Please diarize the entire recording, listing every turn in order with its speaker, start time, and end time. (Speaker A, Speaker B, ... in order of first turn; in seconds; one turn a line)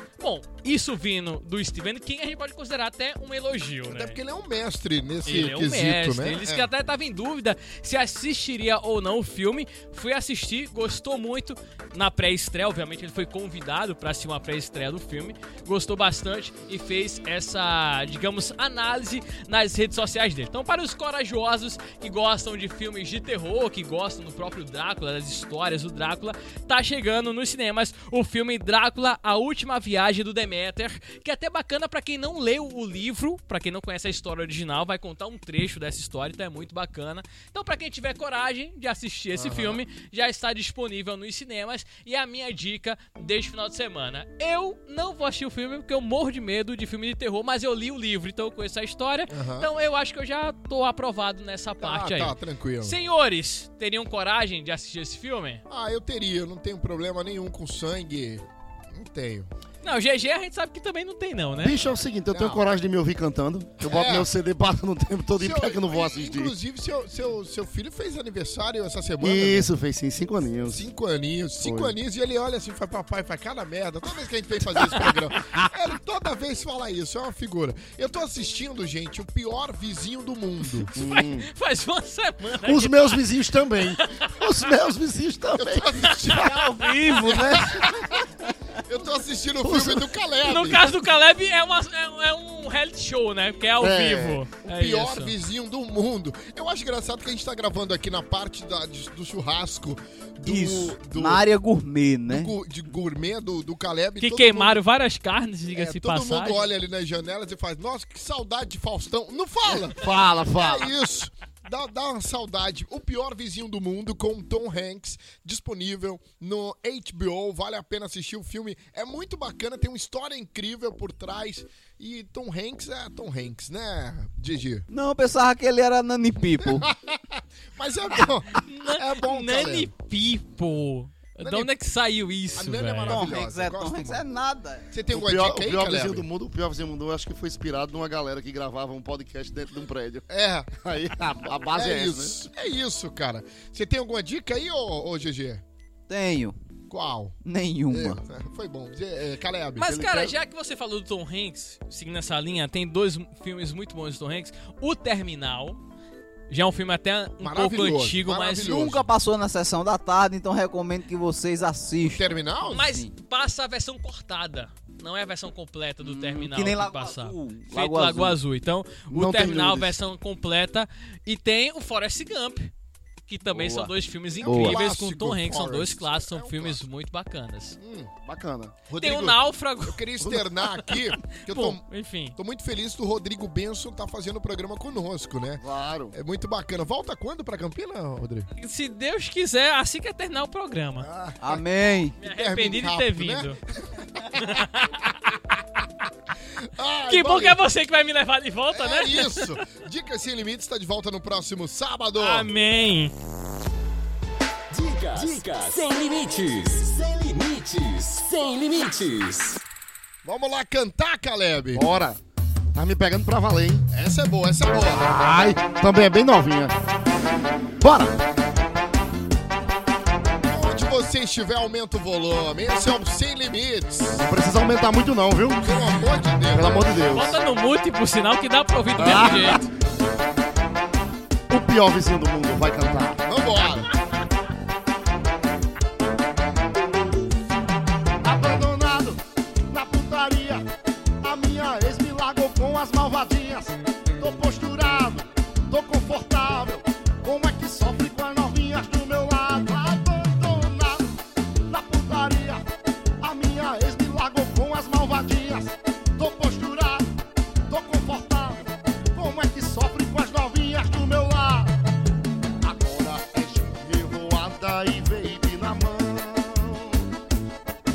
Speaker A: 0.2-4.2
Speaker B: 3.9-6.7
Speaker A: 5.3-55.6
Speaker B: 39.4-39.8
Speaker B: 49.3-49.7
Speaker B: 51.8-53.0
Speaker B: 55.7-59.5
Speaker A: 59.8-61.8
Speaker C: 61.6-66.5
Speaker B: 62.3-62.6
Speaker B: 63.8-64.3
Speaker B: 65.4-69.7
Speaker C: 69.2-70.8
Speaker B: 70.7-80.9
Speaker C: 71.6-72.0
Speaker C: 81.0-81.5
Speaker A: 81.0-83.2
Speaker C: 82.6-86.5
Speaker B: 85.6-86.5
Speaker A: 86.0-87.1
Speaker D: 86.3-88.0
Speaker B: 87.2-88.2
Speaker B: 88.9-91.0
Speaker C: 89.6-90.1
Speaker A: 90.4-95.4
Speaker C: 93.8-94.4
Speaker B: 94.6-101.4
Speaker D: 100.4-102.5
Speaker B: 102.3-104.8
Speaker A: 104.2-106.7
Speaker B: 105.7-110.0
Speaker C: 109.7-110.9
Speaker B: 110.6-124.8
Speaker D: 124.9-126.9
Speaker B: 126.7-129.9
Speaker A: 128.5-133.4
Speaker B: 131.4-131.7
Speaker B: 132.6-134.2
Speaker D: 133.1-134.8
Speaker B: 134.9-136.3
Speaker C: 135.1-142.4
Speaker B: 140.3-140.8
Speaker B: 141.7-145.6
Speaker D: 146.1-146.6
Speaker B: 146.9-147.4
Speaker D: 147.4-148.2
Speaker B: 147.9-150.1
Speaker A: 149.8-155.8
Speaker C: 149.9-150.3
Speaker A: 156.5-158.8
Speaker B: 157.4-159.1
Speaker D: 158.6-163.1
Speaker B: 162.0-162.9
Speaker A: 162.7-172.7
Speaker D: 166.0-168.4
Speaker C: 169.1-170.0
Speaker A: 173.3-177.8
Speaker D: 173.5-173.9
Speaker B: 174.4-176.8
Speaker D: 174.4-174.8
Speaker B: 177.8-178.1
Speaker C: 178.2-178.8
Speaker B: 178.9-181.8
Speaker A: 179.0-180.0
Speaker A: 180.9-182.3
Speaker B: 182.4-188.5
Speaker C: 185.6-186.2
Speaker A: 188.6-191.1
Speaker B: 191.0-191.6
Speaker D: 191.4-192.2
Speaker A: 192.2-193.6
Speaker B: 192.3-195.1
Speaker A: 194.4-194.9
Speaker B: 196.7-197.6
Speaker A: 197.1-199.5
Speaker B: 198.7-202.5
Speaker A: 202.2-203.1
Speaker E: 204.7-209.6
Speaker B: 210.2-211.8
Speaker C: 211.7-212.2
Speaker C: 212.7-213.9
Speaker B: 213.9-215.2
Speaker C: 215.0-216.8
Speaker C: 217.8-218.2
Speaker B: 220.4-224.2
Speaker C: 224.2-227.4
Speaker B: 225.6-226.9
Speaker A: 227.1-229.7
Speaker C: 229.0-229.7
Speaker C: 231.5-233.2
Speaker B: 233.2-233.9
Speaker C: 238.2-240.7
Speaker C: 241.2-252.7
Speaker C: 253.2-257.1
Speaker C: 257.7-261.8
Speaker C: 262.6-267.1